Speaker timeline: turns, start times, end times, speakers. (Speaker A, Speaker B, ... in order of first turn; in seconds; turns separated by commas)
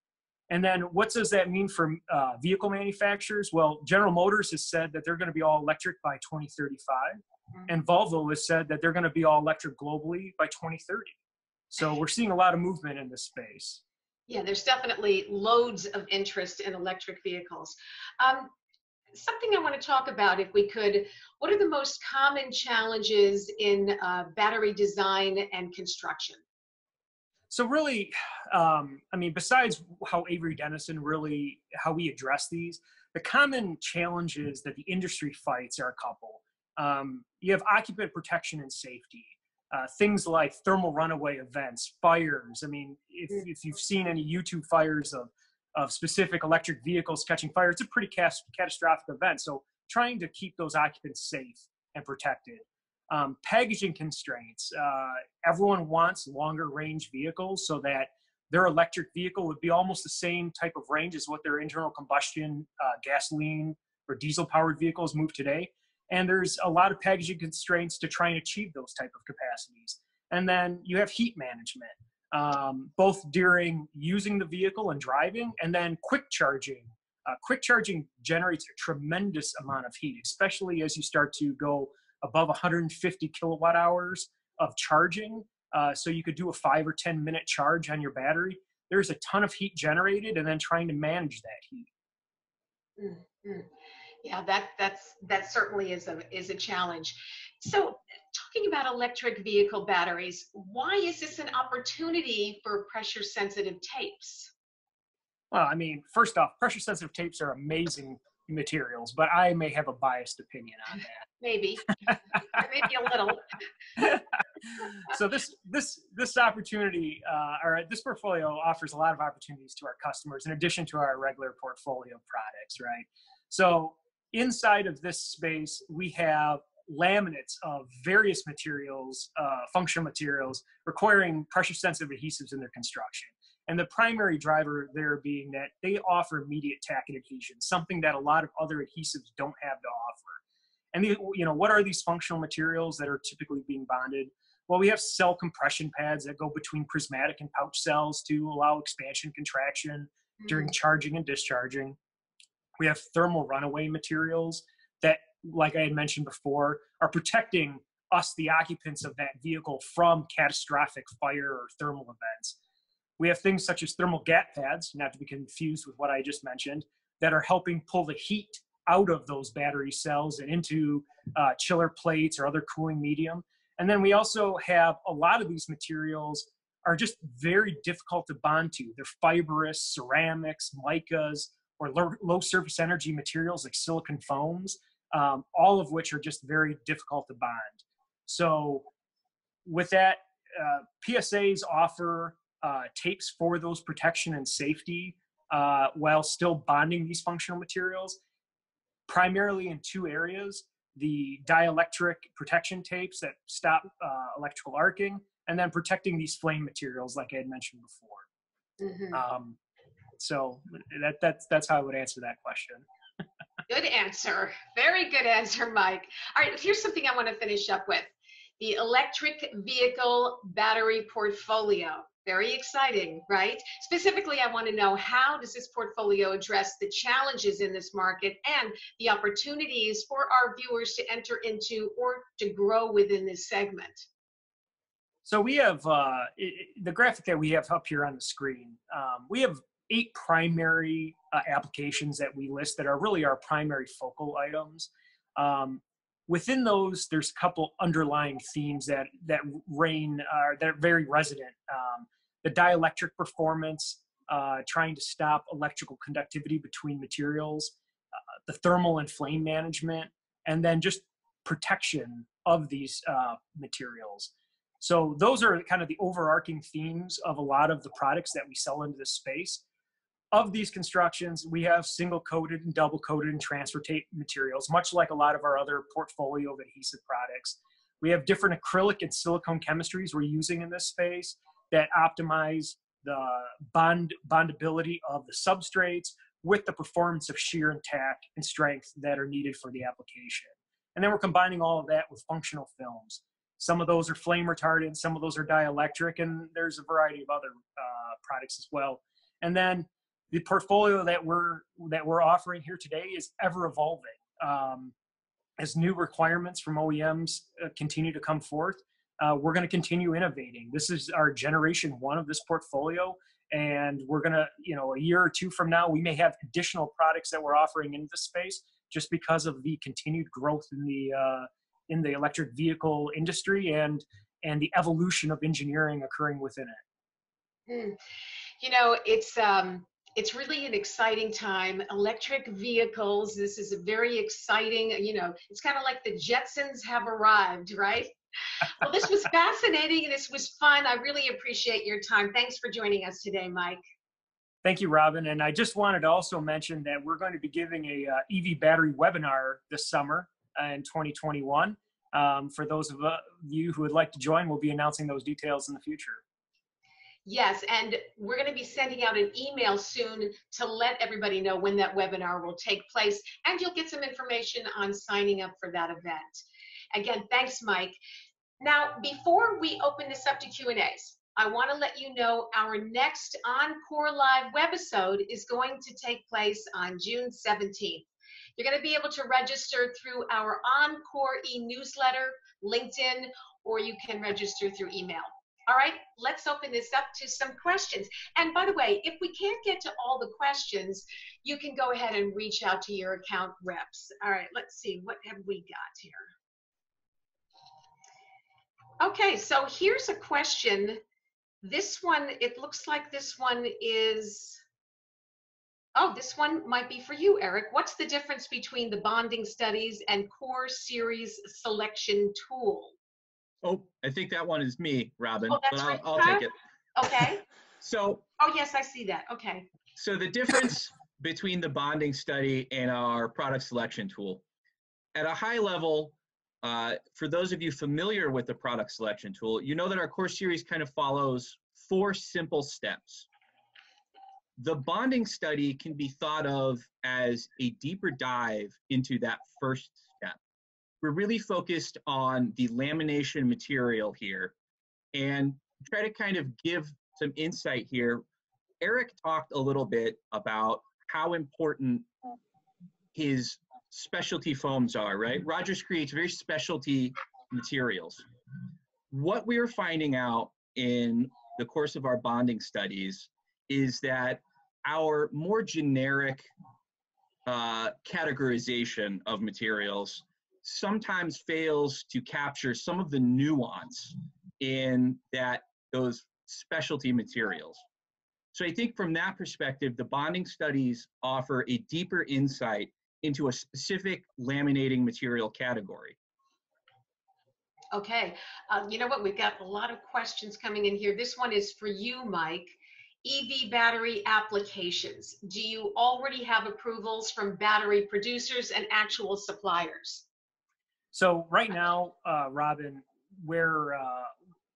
Speaker A: 0.5-11.1, Speaker A: 11.7-13.8, Speaker B: 14.3-18.5, Speaker B: 19.1-26.4, Speaker A: 27.5-91.9, Speaker B: 93.0-93.7, Speaker B: 94.2-104.5, Speaker A: 105.5-111.2, Speaker B: 111.4-112.0, Speaker B: 112.5-113.5, Speaker A: 114.0-114.2, Speaker A: 115.0-140.4, Speaker A: 140.9-152.0, Speaker B: 150.4-150.7, Speaker A: 152.8-162.6, Speaker A: 163.2-188.9, Speaker A: 189.6-198.2, Speaker A: 199.1-208.2, Speaker B: 208.8-209.2, Speaker A: 209.1-209.6, Speaker A: 210.2-212.8, Speaker B: 213.7-234.1, Speaker A: 235.2-257.7, Speaker A: 258.4-269.6, Speaker A: 270.3-304.9, Speaker A: 305.6-326.8, Speaker B: 327.7-328.0, Speaker B: 328.6-343.8, Speaker A: 344.6-356.2, Speaker B: 357.2-366.4, Speaker B: 366.9-368.0, Speaker B: 368.6-396.3, Speaker B: 399.0-401.0, Speaker B: 401.6-404.6, Speaker B: 405.9-412.9, Speaker C: 413.6-416.5, Speaker B: 415.5-417.4, Speaker C: 417.8-418.2, Speaker B: 418.4-419.7, Speaker C: 420.0-424.4, Speaker C: 425.1-433.3, Speaker C: 434.6-440.4, Speaker C: 441.0-444.5, Speaker C: 445.1-448.2, Speaker C: 448.8-452.1, Speaker C: 453.1-458.2, Speaker C: 459.1-466.5, Speaker C: 467.4-477.8, Speaker C: 478.5-486.1, Speaker B: 487.9-492.7, Speaker B: 493.2-500.2, Speaker A: 501.1-504.3